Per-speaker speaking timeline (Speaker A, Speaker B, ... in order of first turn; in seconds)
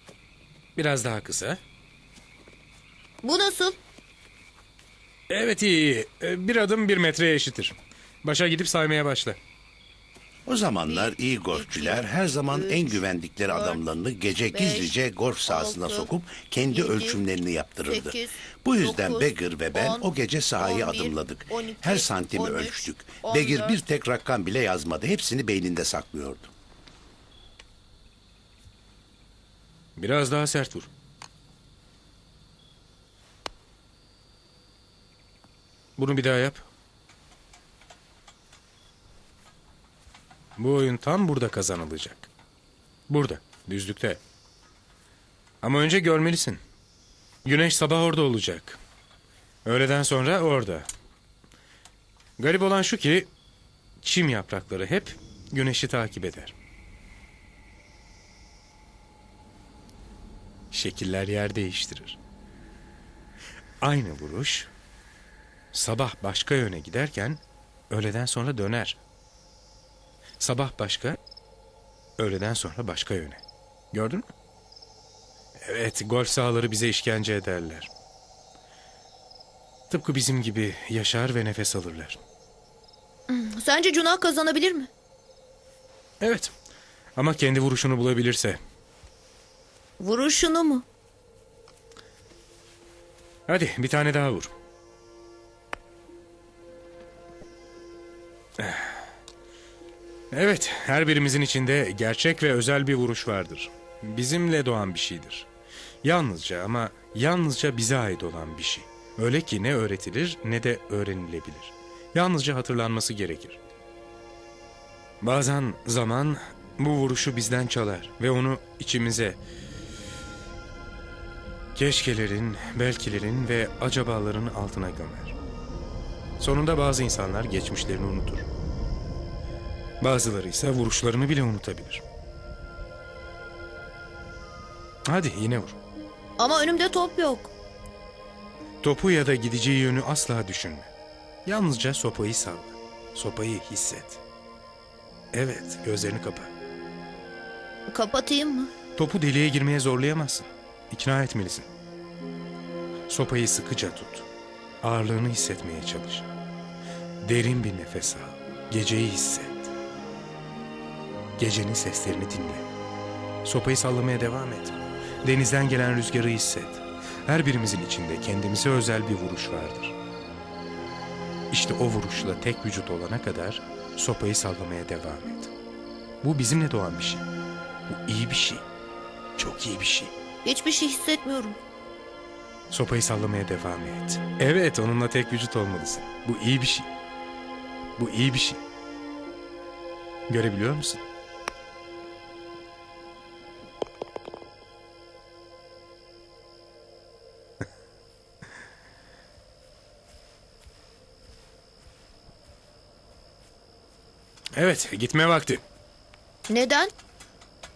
Speaker A: 0.8-1.6, 5.3-9.4, 30.0-30.9, 36.0-36.6, 40.6-42.3, 43.1-44.2, 45.6-46.6, 47.4-48.8, 49.6-50.9, 52.4-53.3, 54.0-56.5, 60.7-62.2, 63.8-64.7, 65.7-69.0, 70.4-71.2, 72.2-74.3, 75.6-77.9, 79.9-82.2, 86.2-86.5, 87.2-88.6, 93.5-94.5, 98.6-98.9, 100.3-105.5, 106.0-113.6, 115.2-119.4, 121.7-125.3, 126.4-128.5, 130.0-132.0, 135.0-135.8, 138.8-140.9, 141.4-144.2, 145.3-146.5, 148.9-151.7, 153.1-154.2, 154.8-156.3, 157.2-159.7, 161.4-162.7, 163.4-169.9, 171.5-175.5, 176.2-177.2, 177.9-178.6, 179.4-180.1, 182.7-186.9, 188.0-188.6, 190.3-191.0, 204.5-205.6
Speaker B: 3.2-3.8, 10.8-13.8, 14.5-14.9, 15.5-17.2, 17.9-23.8, 83.3-84.9, 90.0-90.8, 136.4-137.5, 147.9-148.7, 180.4-181.6, 206.5-206.9
Speaker C: 10.5-26.5